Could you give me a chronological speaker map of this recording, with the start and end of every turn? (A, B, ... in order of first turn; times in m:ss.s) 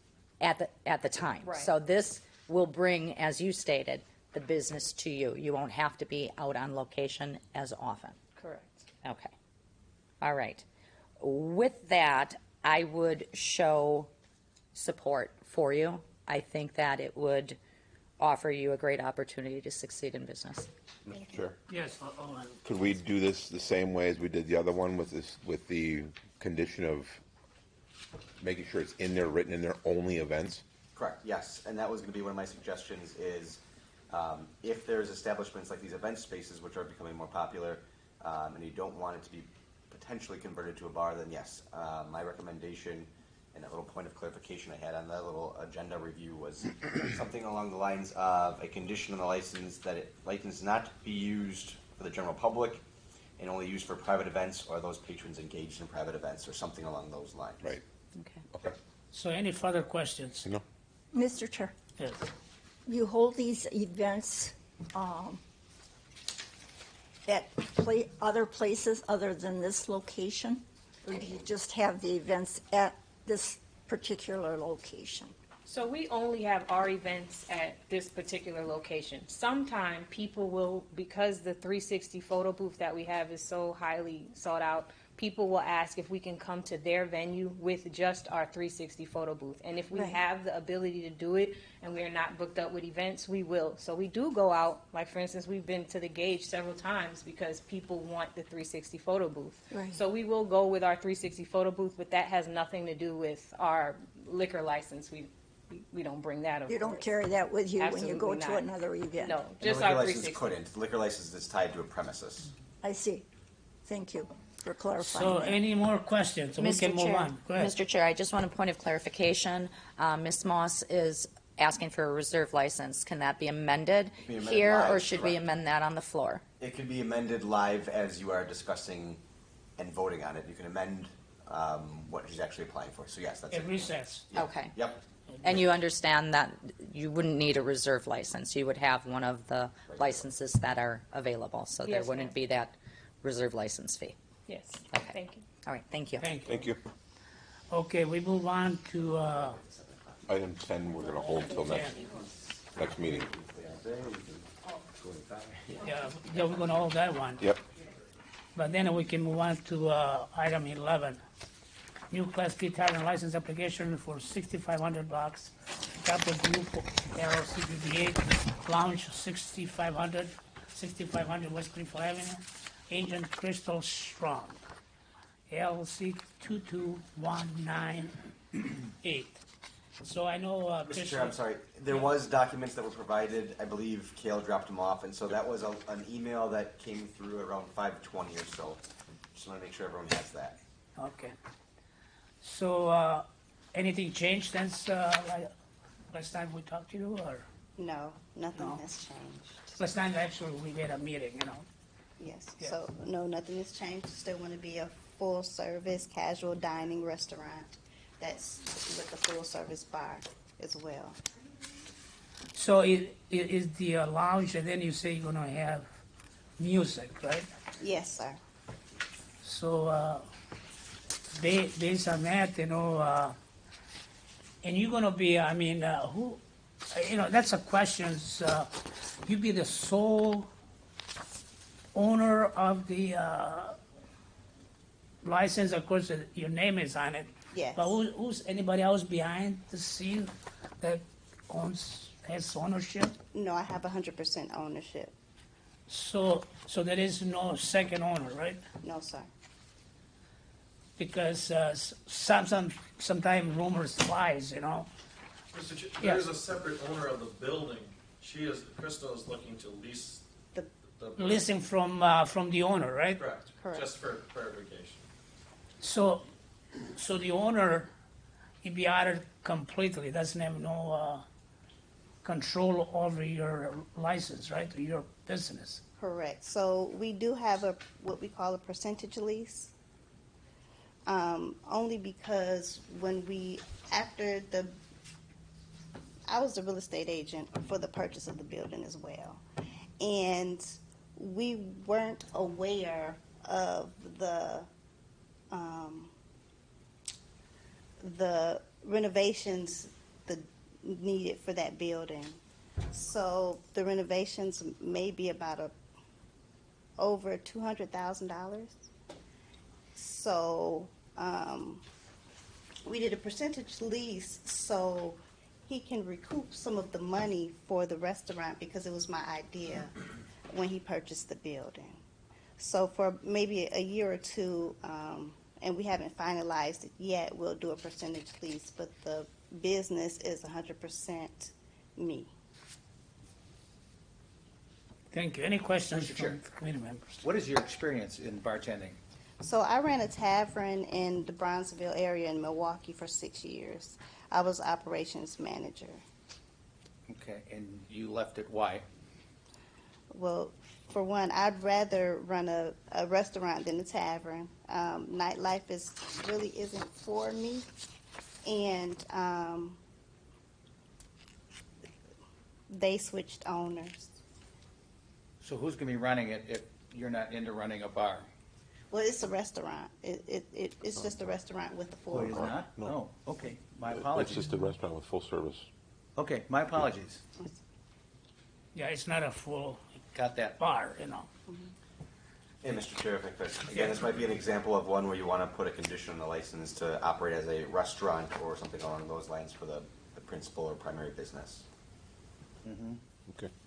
0:00.4-0:08.2 A
0:08.4-0:08.9 B
0:09.0-0:09.3 A
0:10.2-0:10.6 A
0:11.2-0:14.1 A
0:14.7-0:17.6 A
0:18.2-0:20.7 A
0:21.0-0:21.6 C
0:21.7-0:22.6 D
0:22.6-0:27.2 C
0:28.4-0:30.6 C
0:30.9-0:52.8 E
0:53.4-0:57.6 E
0:58.1-0:58.4 A
0:58.5-0:58.8 C
0:59.1-1:00.5 D
1:01.1-1:01.7 F
1:02.0-1:02.3 D
1:02.9-1:05.4 F
1:07.2-1:15.3 F
1:15.6-1:47.0 B
1:29.9-1:30.2 F
1:39.7-1:40.0 F
1:46.7-1:49.4 F
1:47.8-1:48.7 B
1:49.2-1:50.5 B
1:49.6-1:52.5 E
1:52.8-1:53.2 F
1:53.8-1:55.6 F
1:55.0-1:57.7 D
1:56.6-2:06.4 A
2:04.2-2:05.4 E
2:06.6-2:09.2 E
2:09.8-2:15.0 E
2:13.5-2:14.3 D
2:14.3-2:14.8 A
2:15.3-2:15.6 D
2:15.4-2:24.2 A
2:19.9-2:20.2 E
2:21.8-2:22.3 B
2:24.5-2:25.4 B
2:24.9-2:26.3 A
2:26.2-2:26.7 D
2:26.4-2:26.8 C
2:27.7-2:29.6 D
2:29.6-2:30.1 E
2:30.3-2:32.0 C
2:31.6-2:31.9 D
2:32.8-2:33.3 C
2:33.7-2:34.0 E
2:35.8-2:37.4 D
2:38.6-2:41.2 D
2:42.1-2:54.6 D
2:55.5-2:58.2 D
2:59.0-2:59.4 D
3:00.0-3:01.4 D
3:00.9-3:08.8 E
3:09.3-3:10.6 E
3:11.0-3:11.4 D
3:12.4-3:15.5 D
3:16.1-3:17.5 D
3:17.8-3:19.8 G
3:18.5-3:18.8 D
3:19.8-3:21.6 D
3:22.2-3:31.2 G
3:32.5-3:35.9 D
3:36.6-3:37.5 D
3:37.8-3:38.4 G
3:39.4-3:40.2 D
3:41.3-3:43.4 D
3:44.6-3:48.7 D
3:49.2-3:50.5 D
3:51.9-3:53.8 D
3:55.2-4:03.1 D
3:57.5-3:58.0 G
4:03.3-4:05.1 G
4:05.9-4:08.6 D
4:08.8-4:09.3 G
4:11.0-4:14.9 D
4:15.5-4:20.2 H
4:16.0-4:16.2 D
4:21.0-4:21.4 H
4:21.2-4:23.2 D
4:23.2-4:25.0 H
4:23.6-4:23.9 G
4:25.8-4:26.3 D
4:26.9-4:27.9 D
4:28.6-4:31.2 D
4:32.2-4:35.8 D
4:36.0-4:39.7 G
4:41.1-4:44.7 G
4:46.3-4:49.4 G
4:50.0-4:54.7 G
4:55.5-4:56.1 G
4:58.0-5:02.4 G
5:02.9-5:05.7 G
5:07.0-5:08.9 G
5:10.0-5:11.8 G
5:12.9-5:19.9 G
5:20.5-5:22.0 G
5:22.6-5:32.3 G
5:35.1-5:37.2 D
5:35.9-5:36.4 I
5:37.2-5:39.0 I
5:39.4-5:46.0 G
5:47.1-5:48.8 I
5:50.1-5:57.6 G
5:58.4-5:59.8 G
6:02.7-6:04.2 G
6:05.4-6:08.3 I
6:08.9-6:12.5 G
6:12.1-6:14.5 I
6:12.1-6:13.0 C
6:13.9-6:15.7 C
6:16.2-6:17.2 I
6:18.7-6:20.0 D
6:20.1-6:20.6 I
6:20.6-6:21.3 D
6:22.6-6:31.6 E
6:32.6-6:33.0 I